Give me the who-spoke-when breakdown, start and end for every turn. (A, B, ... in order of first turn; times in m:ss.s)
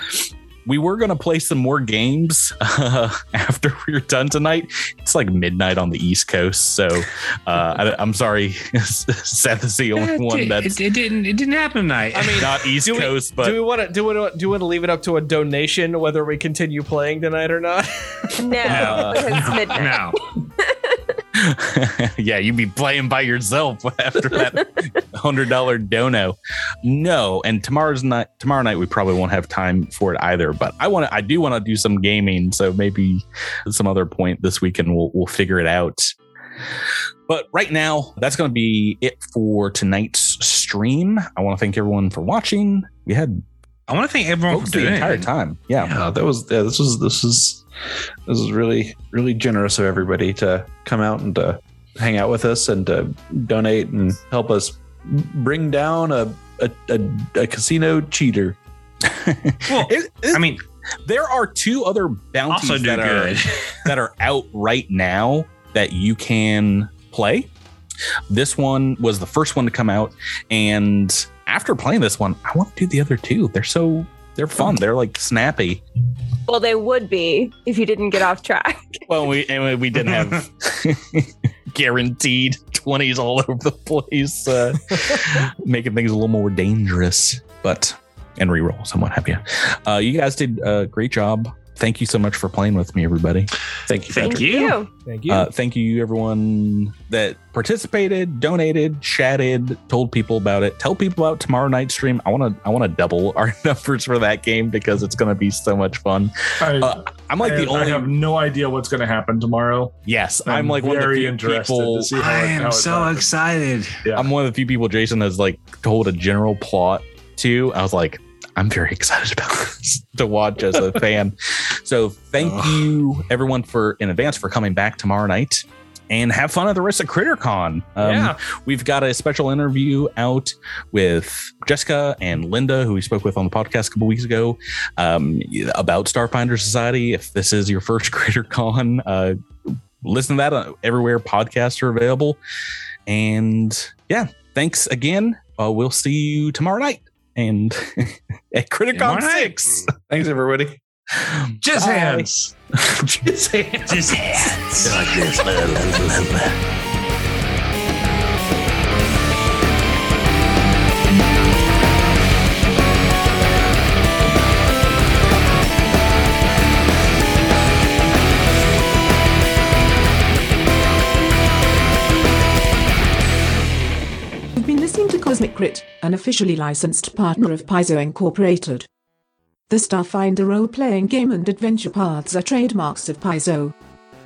0:00.7-0:10.8 A
0:09.9-0:12.5 B
0:12.1-0:19.2 C
0:12.4-0:13.7 A
0:18.4-0:20.9 D
0:18.6-0:19.3 A
0:19.7-0:20.2 B
0:21.4-0:36.2 A
0:37.3-0:43.4 A
0:43.9-0:45.3 B
0:44.5-0:45.9 A
0:45.8-0:47.6 E
0:48.3-0:58.6 E
0:59.1-1:00.4 A
0:59.7-1:00.6 B
1:01.0-1:07.5 A
1:02.5-1:03.9 B
1:08.3-1:15.8 A
1:16.5-1:19.0 D
1:19.1-1:33.5 A
1:33.9-1:34.4 E
1:34.1-1:34.8 B
1:34.2-1:34.9 D
1:35.1-1:35.5 C
1:35.3-1:48.1 A
1:46.6-1:53.3 F
1:50.0-1:52.1 A
1:52.2-1:54.0 B
1:54.0-1:54.3 F
1:54.1-2:22.4 A
2:08.0-2:08.4 C
2:23.1-2:29.9 A
2:29.0-2:29.5 B
2:29.0-2:30.8 E
2:31.7-2:32.3 F
2:31.8-2:32.2 E
2:31.8-2:32.3 B
2:32.8-2:34.5 E
2:33.9-2:35.4 B
2:34.8-2:36.6 A
2:54.6-2:58.9 G
2:59.7-3:03.7 G